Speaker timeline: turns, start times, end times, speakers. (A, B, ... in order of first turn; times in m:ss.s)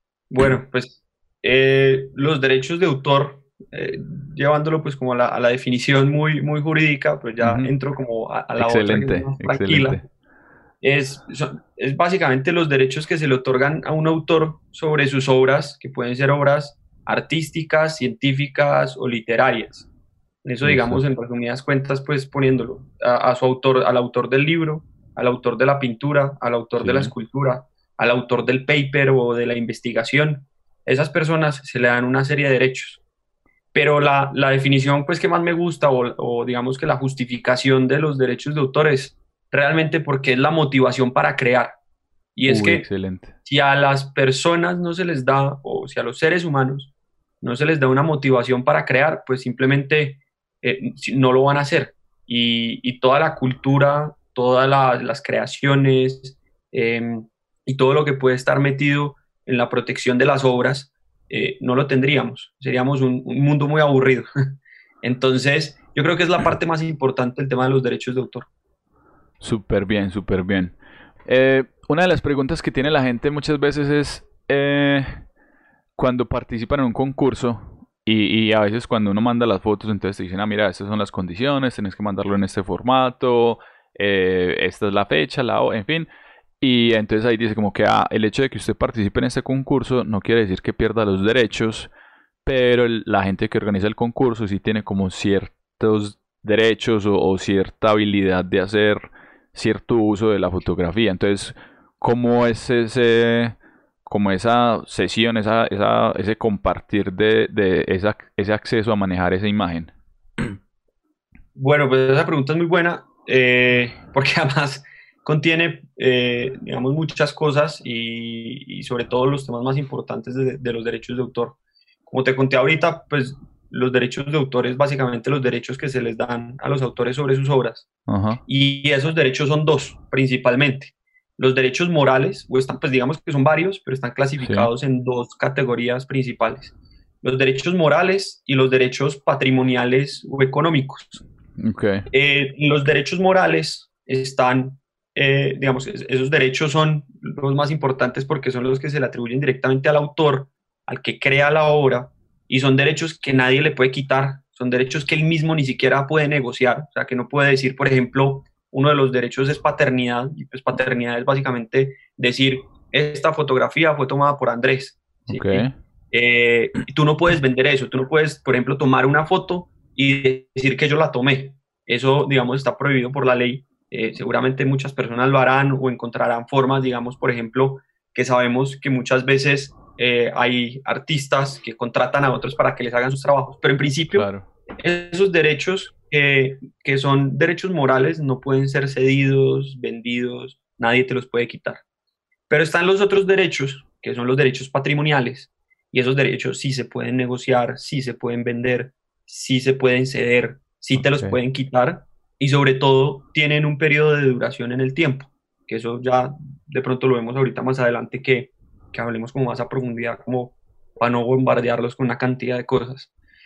0:00.3-0:10.0 A
0:07.4-0:07.7 B
0:08.6-0:10.0 B
0:10.8-0:19.9 A
0:20.4-0:33.0 A
0:20.6-0:21.0 B
0:26.8-0:27.1 B
0:33.7-0:41.8 A
0:42.4-0:42.8 A
0:42.5-0:43.3 B
0:43.4-0:46.9 A
0:47.4-1:04.3 A
1:05.0-1:08.5 A
1:09.4-1:15.2 B
1:16.0-1:26.1 B
1:26.6-1:31.9 B
1:32.4-1:50.5 B
1:51.6-2:01.6 A
2:02.1-2:07.9 A
2:08.1-2:08.4 B
2:08.4-2:21.2 A
2:14.4-2:14.7 B
2:21.6-2:22.0 B
2:22.1-3:04.3 A
2:45.3-2:45.7 B
3:04.1-3:04.5 B
3:04.8-3:11.8 A
3:12.5-3:33.1 A
3:21.0-3:21.4 B